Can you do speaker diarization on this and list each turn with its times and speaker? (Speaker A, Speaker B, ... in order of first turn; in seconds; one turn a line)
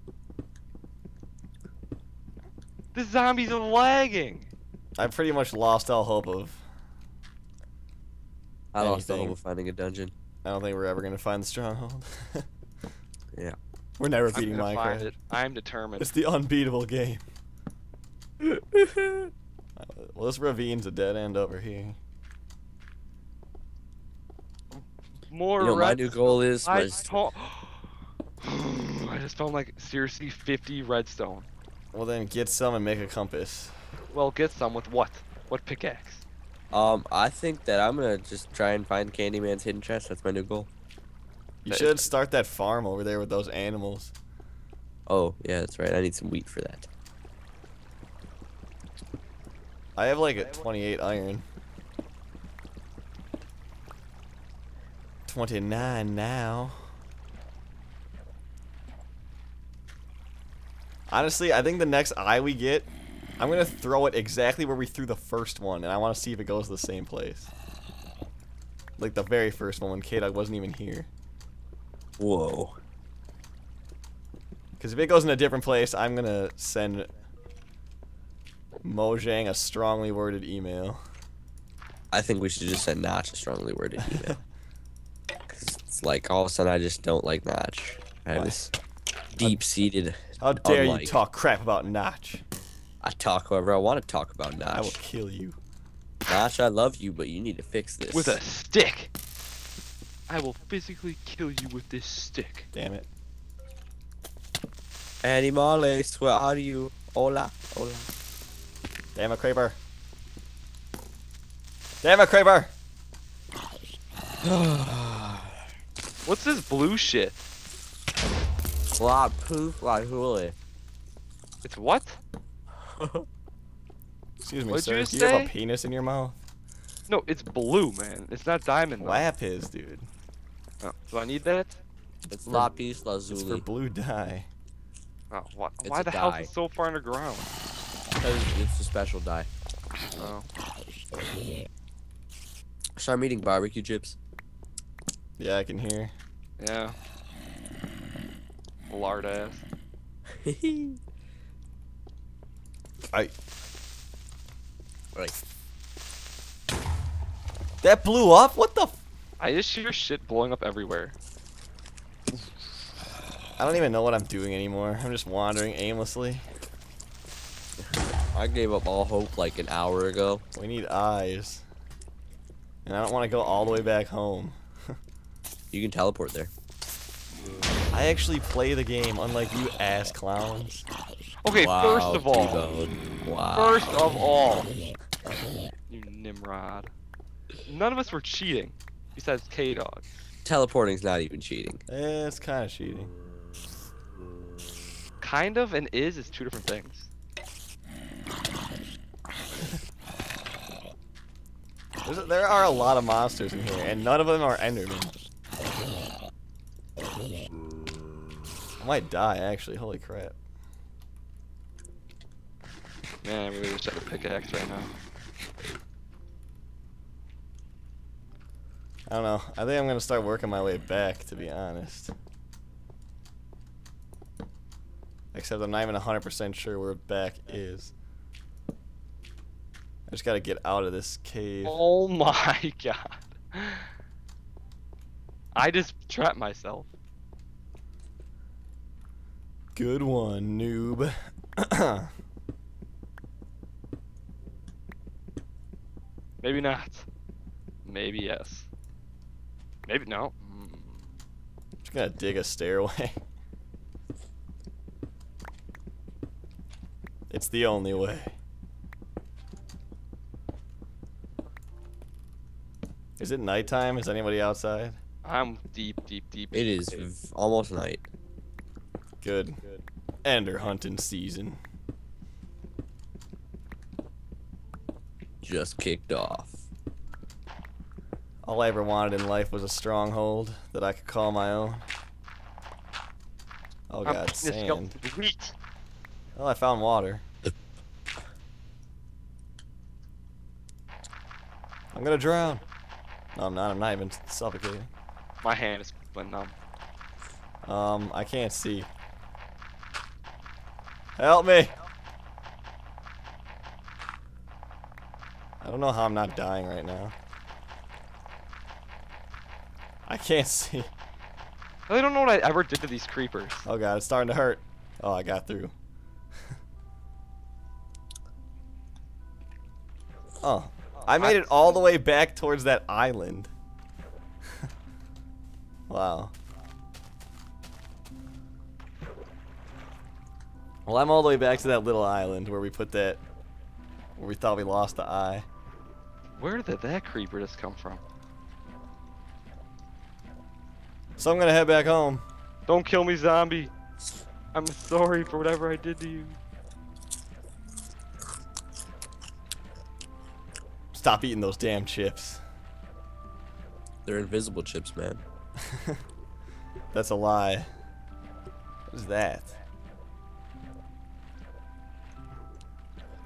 Speaker A: 2.9-4.5
Speaker B: 5.0-6.6
Speaker C: 8.7-10.1
Speaker B: 8.8-9.4
Speaker B: 10.4-12.4
Speaker B: 14.0-15.1
Speaker A: 14.3-16.1
Speaker B: 16.0-17.2
Speaker C: 18.4-19.3
Speaker B: 19.8-22.0
Speaker A: 25.3-27.9
Speaker C: 25.6-27.2
Speaker A: 28.4-31.5
Speaker B: 31.9-33.7
Speaker A: 34.1-36.2
Speaker C: 36.7-40.7
Speaker B: 41.6-44.1
Speaker A: 41.7-42.1
Speaker C: 45.1-46.9
Speaker B: 50.0-51.4
Speaker B: 55.3-56.8
Speaker B: 61.1-67.5
Speaker B: 69.0-71.1
Speaker C: 72.2-72.8
Speaker B: 74.8-77.1
Speaker B: 78.8-81.0
Speaker C: 82.1-84.4
Speaker B: 84.0-84.4
Speaker C: 85.5-88.7
Speaker B: 88.3-88.7
Speaker B: 89.3-89.7
Speaker C: 89.4-91.2
Speaker B: 90.4-92.4
Speaker C: 93.0-95.0
Speaker B: 94.7-95.6
Speaker C: 96.3-98.4
Speaker A: 98.1-99.1
Speaker A: 100.3-102.7
Speaker B: 102.7-103.1
Speaker C: 105.2-108.1
Speaker B: 109.1-109.8
Speaker B: 112.0-112.7
Speaker C: 114.4-115.5
Speaker A: 116.2-117.4
Speaker C: 119.0-120.5
Speaker A: 121.6-122.2
Speaker C: 123.0-123.2
Speaker B: 124.4-126.4
Speaker A: 124.7-125.5
Speaker A: 127.1-129.3
Speaker B: 129.0-130.1
Speaker A: 130.8-131.8
Speaker C: 132.3-133.6
Speaker B: 132.4-132.7
Speaker B: 133.3-134.5
Speaker A: 135.3-137.5
Speaker C: 135.8-136.5
Speaker C: 138.1-139.5
Speaker A: 140.2-140.5
Speaker C: 142.9-144.2
Speaker B: 145.4-146.1
Speaker A: 146.6-146.9
Speaker A: 148.9-149.6
Speaker C: 150.4-151.0
Speaker B: 157.8-159.0
Speaker A: 159.4-161.1
Speaker B: 163.6-166.4
Speaker C: 168.3-170.4
Speaker B: 170.5-171.6
Speaker B: 172.8-174.6
Speaker C: 175.7-176.5
Speaker B: 177.9-180.9
Speaker A: 181.4-182.7
Speaker C: 181.6-184.0
Speaker A: 183.5-184.7
Speaker A: 185.9-186.9
Speaker A: 187.7-190.0
Speaker C: 190.4-191.8
Speaker B: 191.9-193.1
Speaker A: 195.2-197.1
Speaker B: 202.0-205.1
Speaker B: 208.8-210.4
Speaker A: 213.2-214.9
Speaker B: 219.1-222.1
Speaker B: 225.3-227.9
Speaker B: 230.1-231.8
Speaker A: 231.6-233.9
Speaker A: 235.5-236.9
Speaker B: 239.7-242.1
Speaker A: 246.4-247.1
Speaker A: 247.8-248.7
Speaker A: 249.9-251.1
Speaker B: 251.8-253.2
Speaker B: 257.3-258.3
Speaker B: 263.2-265.0
Speaker A: 265.2-267.1
Speaker C: 266.5-268.0
Speaker B: 269.2-269.6
Speaker B: 270.2-271.6
Speaker C: 275.4-276.6
Speaker B: 278.4-281.8
Speaker B: 283.9-284.9
Speaker A: 284.0-285.5
Speaker B: 286.4-287.2
Speaker B: 291.9-292.6
Speaker B: 293.3-294.9
Speaker A: 295.4-296.5
Speaker B: 297.6-298.9
Speaker B: 301.2-301.7
Speaker B: 305.6-307.1
Speaker B: 310.1-310.9
Speaker A: 311.9-313.7
Speaker B: 313.6-315.7
Speaker B: 320.4-323.5
Speaker A: 321.2-321.8
Speaker B: 325.9-326.3
Speaker B: 330.9-333.2
Speaker B: 334.1-335.4
Speaker A: 336.4-338.0
Speaker B: 341.2-342.2
Speaker A: 342.7-343.7
Speaker A: 344.5-346.4
Speaker B: 350.9-352.4
Speaker C: 354.0-355.2
Speaker B: 355.7-356.0
Speaker B: 356.9-357.7
Speaker B: 358.9-359.6